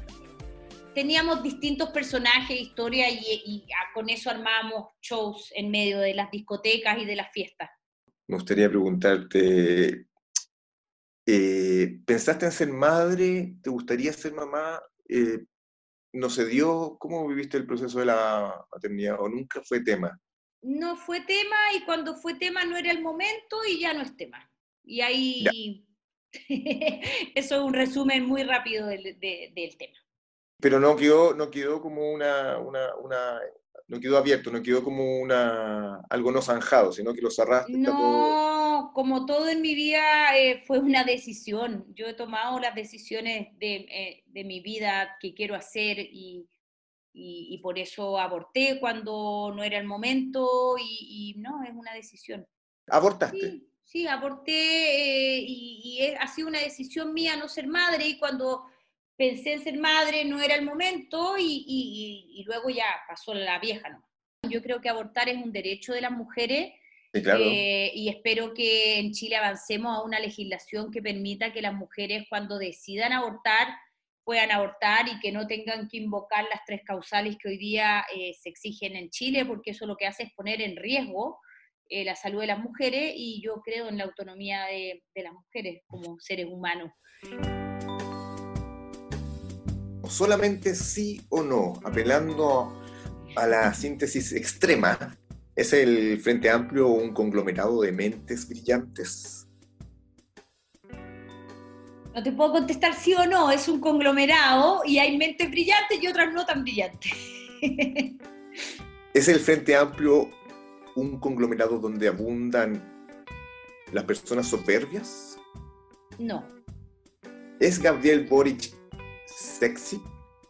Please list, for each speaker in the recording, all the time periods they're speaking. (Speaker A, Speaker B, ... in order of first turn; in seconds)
Speaker A: 0.9-7.7, 20.6-25.9, 26.5-30.0, 37.6-46.5, 47.1-52.5, 53.3-66.8, 67.3-87.0, 102.1-108.1, 116.2-116.5
Speaker B: 8.3-10.1, 11.2-15.4, 16.1-20.2, 30.6-38.4, 52.9-53.5, 67.1-67.6, 90.0-92.8, 93.3-99.5, 109.1-110.4, 110.9-112.9, 113.9-115.4, 117.6-120.1